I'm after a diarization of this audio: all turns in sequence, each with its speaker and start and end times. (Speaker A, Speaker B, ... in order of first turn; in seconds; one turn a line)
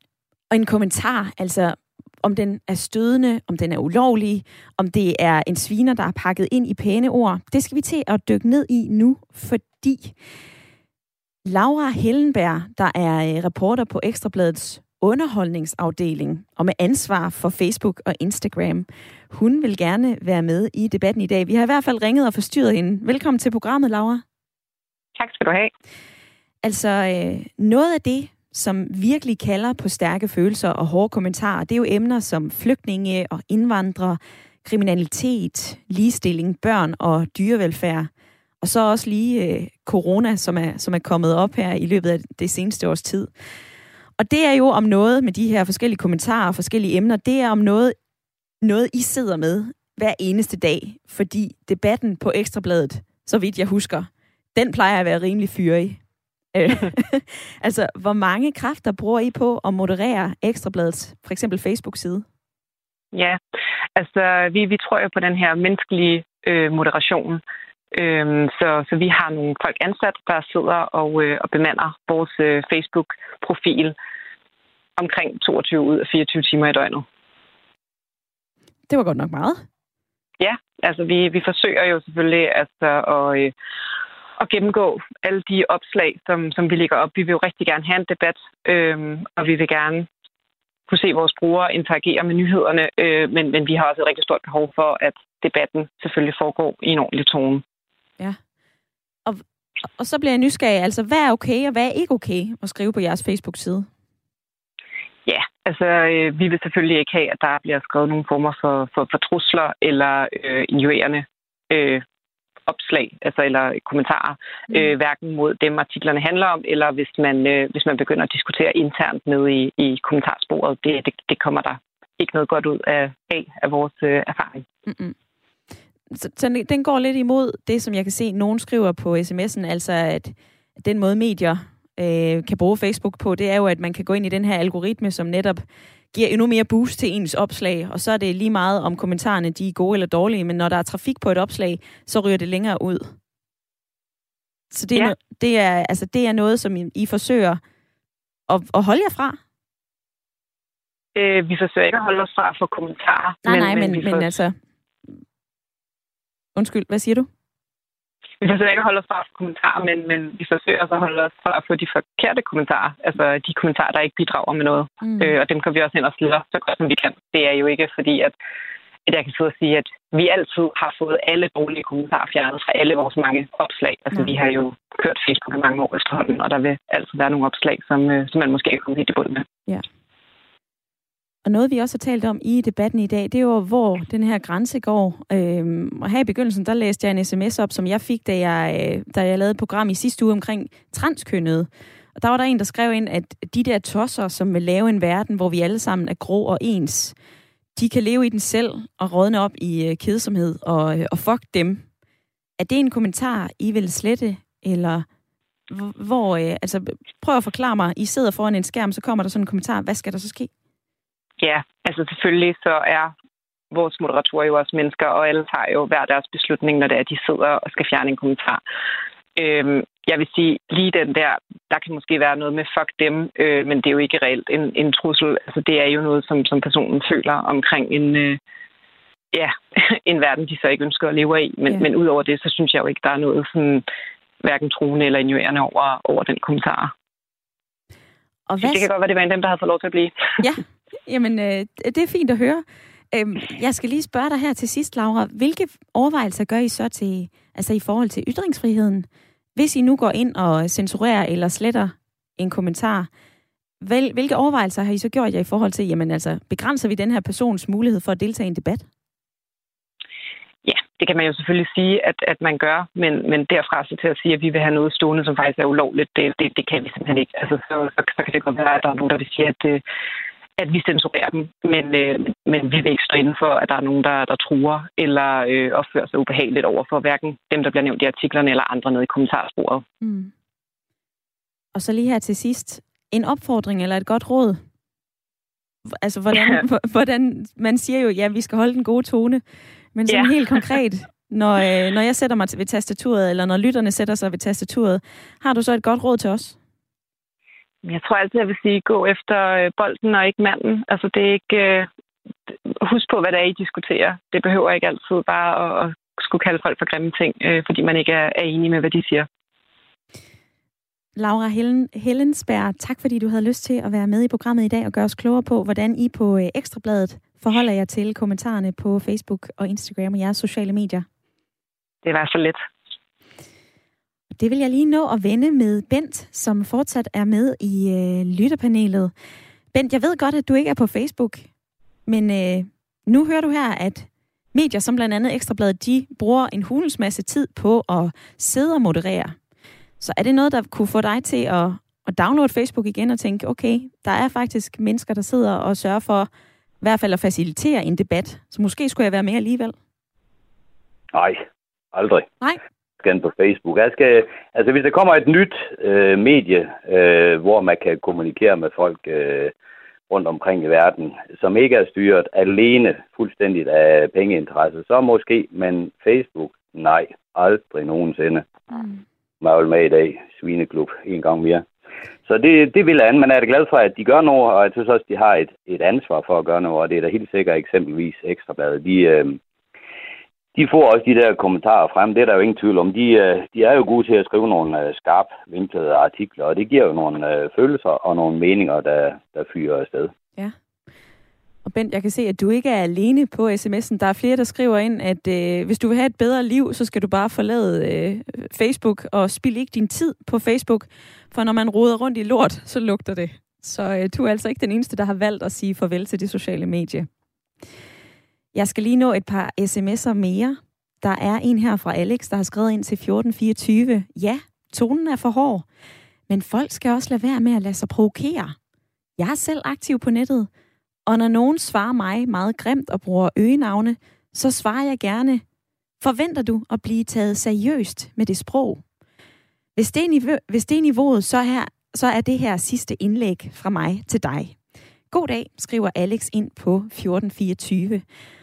Speaker A: 0.5-10.1
Speaker A: 11.4-24.2
Speaker B: 25.1-25.7
Speaker A: 26.6-38.1
Speaker A: 38.6-43.3
Speaker A: 44.2-47.9
Speaker A: 48.6-62.2
Speaker B: 63.1-63.4
Speaker B: 64.0-67.4
Speaker B: 67.9-74.0
Speaker B: 75.0-77.0
Speaker A: 78.9-79.6
Speaker B: 80.4-83.5
Speaker B: 84.4-90.1
Speaker B: 90.9-97.6
Speaker A: 100.0-103.9
Speaker B: 105.2-112.0
Speaker B: 112.7-124.6
Speaker A: 124.8-125.1
Speaker A: 126.1-143.1
Speaker A: 144.7-147.6
Speaker A: 148.5-149.4
Speaker B: 151.2-154.3
Speaker A: 153.4-154.6
Speaker A: 156.6-157.3
Speaker B: 158.4-168.3
Speaker A: 165.0-165.3
Speaker B: 169.1-179.5
Speaker A: 181.4-197.1
Speaker A: 197.8-201.8
Speaker A: 202.6-205.1
Speaker A: 205.7-210.5
Speaker B: 211.4-213.1
Speaker B: 213.7-218.6
Speaker B: 219.4-228.4
Speaker B: 229.3-233.8
Speaker B: 234.4-236.9
Speaker A: 238.5-238.9
Speaker B: 238.6-240.4
Speaker A: 240.4-253.1
Speaker A: 253.8-258.9
Speaker B: 260.6-269.8
Speaker B: 270.6-279.8
Speaker A: 280.0-280.3
Speaker A: 281.7-284.6
Speaker A: 286.0-289.4
Speaker B: 286.3-286.6
Speaker A: 289.9-296.6
Speaker B: 290.1-290.7
Speaker B: 297.8-301.9
Speaker B: 302.8-309.3
Speaker A: 311.1-321.1
Speaker B: 322.0-322.6
Speaker A: 324.3-329.1
Speaker A: 329.7-331.4
Speaker A: 332.1-339.4
Speaker A: 340.0-346.3
Speaker A: 346.8-349.7
Speaker C: 351.1-352.3
Speaker C: 353.0-359.5
Speaker C: 360.1-368.5
Speaker A: 368.7-369.0
Speaker C: 369.4-371.6
Speaker C: 372.2-379.4
Speaker C: 380.5-390.1
Speaker A: 391.6-407.1
Speaker A: 408.5-415.6
Speaker A: 416.3-418.5
Speaker A: 419.2-420.5
Speaker A: 421.1-425.4
Speaker A: 426.0-428.8
Speaker A: 429.8-434.6
Speaker A: 435.1-438.0